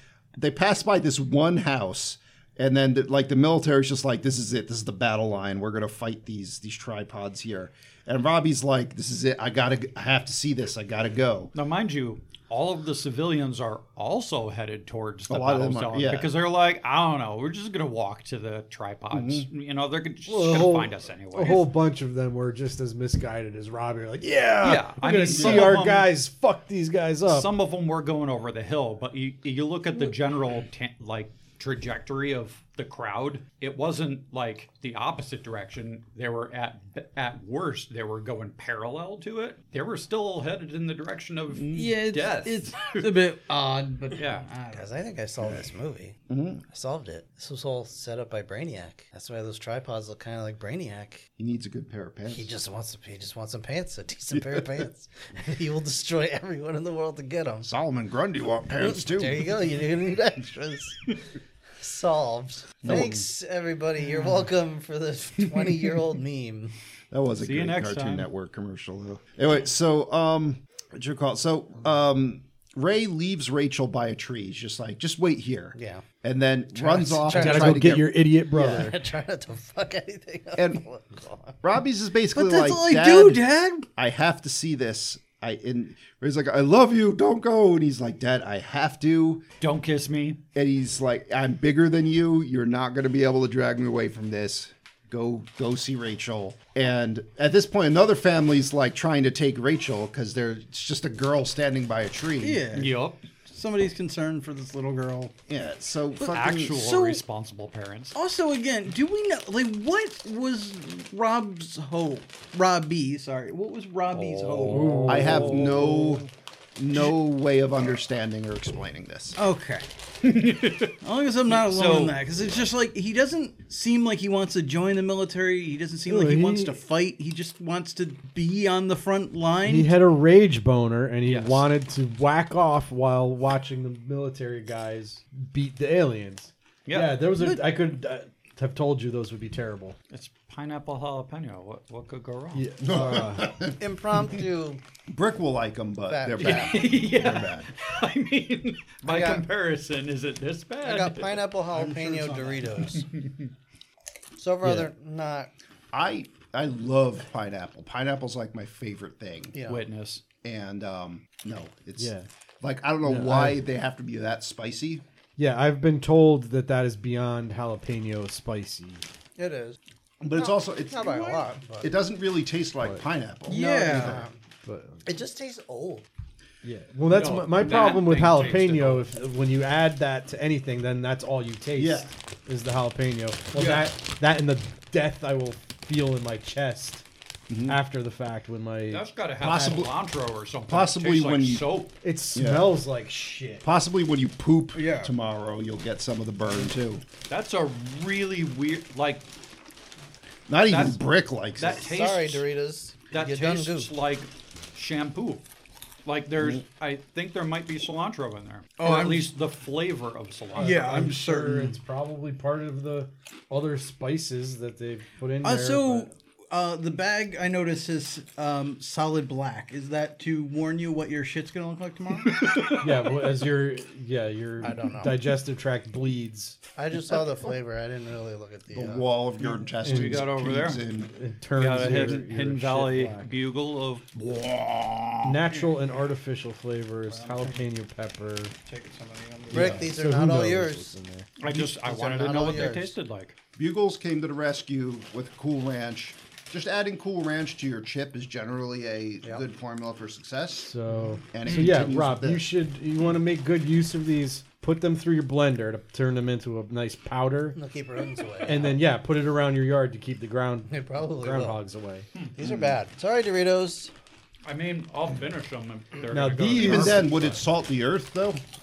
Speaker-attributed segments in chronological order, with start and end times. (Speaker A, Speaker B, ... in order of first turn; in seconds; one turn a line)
Speaker A: 0.4-11.5
Speaker B: 11.5-21.7
Speaker A: 15.3-16.3
Speaker A: 19.1-19.5
Speaker C: 20.3-27.5
Speaker B: 24.6-26.1
Speaker A: 25.3-25.8
Speaker B: 27.2-43.0
Speaker A: 41.5-41.9
Speaker D: 41.7-44.9
Speaker B: 44.2-44.5
Speaker E: 44.7-46.2
Speaker A: 46.3-46.6
Speaker E: 46.7-51.2
Speaker A: 51.4-52.5
Speaker E: 52.3-57.7
Speaker A: 54.3-54.8
Speaker A: 57.6-59.5
Speaker E: 58.8-61.2
Speaker E: 61.8-66.7
Speaker A: 62.8-63.2
Speaker A: 67.1-78.2
Speaker B: 67.4-68.3
Speaker E: 75.7-76.0
Speaker E: 76.7-78.0
Speaker C: 77.3-79.0
Speaker E: 78.5-81.6
Speaker A: 80.5-80.8
Speaker A: 81.6-83.4
Speaker D: 82.3-83.8
Speaker A: 84.0-89.4
Speaker B: 89.6-90.4
Speaker A: 90.5-102.6
Speaker D: 102.4-105.3
Speaker B: 102.7-103.2
Speaker A: 105.5-106.8
Speaker D: 106.2-107.2
Speaker B: 106.3-108.1
Speaker D: 108.1-115.5
Speaker B: 114.1-115.6
Speaker C: 114.7-116.2
Speaker A: 115.1-119.4
Speaker D: 119.4-119.8
Speaker B: 120.2-120.9
Speaker D: 121.0-129.9
Speaker B: 121.5-122.2
Speaker C: 126.0-126.8
Speaker C: 129.6-139.9
Speaker B: 131.2-131.7
Speaker B: 136.8-137.2
Speaker D: 137.3-137.6
Speaker B: 140.1-142.7
Speaker C: 142.5-143.5
Speaker A: 142.8-143.8
Speaker E: 142.9-144.8
Speaker A: 145.1-147.7
Speaker E: 146.1-146.9
Speaker B: 146.4-151.4
Speaker E: 149.0-149.4
Speaker E: 150.8-153.1
Speaker D: 151.7-152.8
Speaker B: 152.9-153.5
Speaker E: 154.4-155.5
Speaker C: 154.6-154.9
Speaker A: 155.9-159.6
Speaker E: 159.5-159.8
Speaker B: 159.7-160.2
Speaker A: 160.4-165.0
Speaker C: 162.0-162.3
Speaker C: 163.0-163.6
Speaker C: 165.4-169.1
Speaker E: 169.4-169.8
Speaker A: 170.2-174.3
Speaker E: 170.3-171.9
Speaker D: 173.5-174.2
Speaker E: 173.6-174.3
Speaker C: 174.6-175.1
Speaker E: 175.0-176.1
Speaker C: 176.6-187.0
Speaker B: 177.1-179.0
Speaker A: 181.8-182.1
Speaker B: 183.5-183.8
Speaker A: 187.5-187.8
Speaker C: 187.7-189.1
Speaker B: 188.9-191.9
Speaker A: 189.4-189.9
Speaker A: 190.7-191.7
Speaker C: 192.0-193.6
Speaker A: 192.3-192.7
Speaker A: 193.6-197.0
Speaker D: 194.7-195.1
Speaker B: 197.3-199.2
Speaker A: 200.5-201.9
Speaker B: 200.7-201.0
Speaker B: 201.6-202.4
Speaker E: 201.8-203.9
Speaker B: 203.1-205.4
Speaker B: 206.0-211.1
Speaker A: 206.4-206.6
Speaker D: 208.8-209.3
Speaker C: 210.6-216.1
Speaker D: 210.6-211.8
Speaker D: 215.4-222.4
Speaker B: 222.3-223.1
Speaker C: 222.8-226.6
Speaker E: 224.6-225.2
Speaker E: 226.8-229.1
Speaker A: 228.7-231.1
Speaker C: 229.8-230.3
Speaker B: 229.8-230.8
Speaker C: 231.0-233.3
Speaker B: 231.6-235.4
Speaker C: 235.2-238.5
Speaker D: 235.5-235.9
Speaker D: 237.1-237.6
Speaker D: 238.6-239.9
Speaker E: 239.5-240.9
Speaker C: 239.5-241.3
Speaker B: 241.4-243.3
Speaker E: 241.5-242.9
Speaker A: 243.6-250.7
Speaker C: 250.7-257.6
Speaker A: 251.3-252.5
Speaker B: 251.4-251.8
Speaker E: 257.5-258.8
Speaker C: 258.4-262.1
Speaker E: 260.7-261.6
Speaker E: 262.4-263.9
Speaker A: 262.4-262.8
Speaker B: 264.4-267.3
Speaker C: 266.1-267.4
Speaker A: 266.5-268.4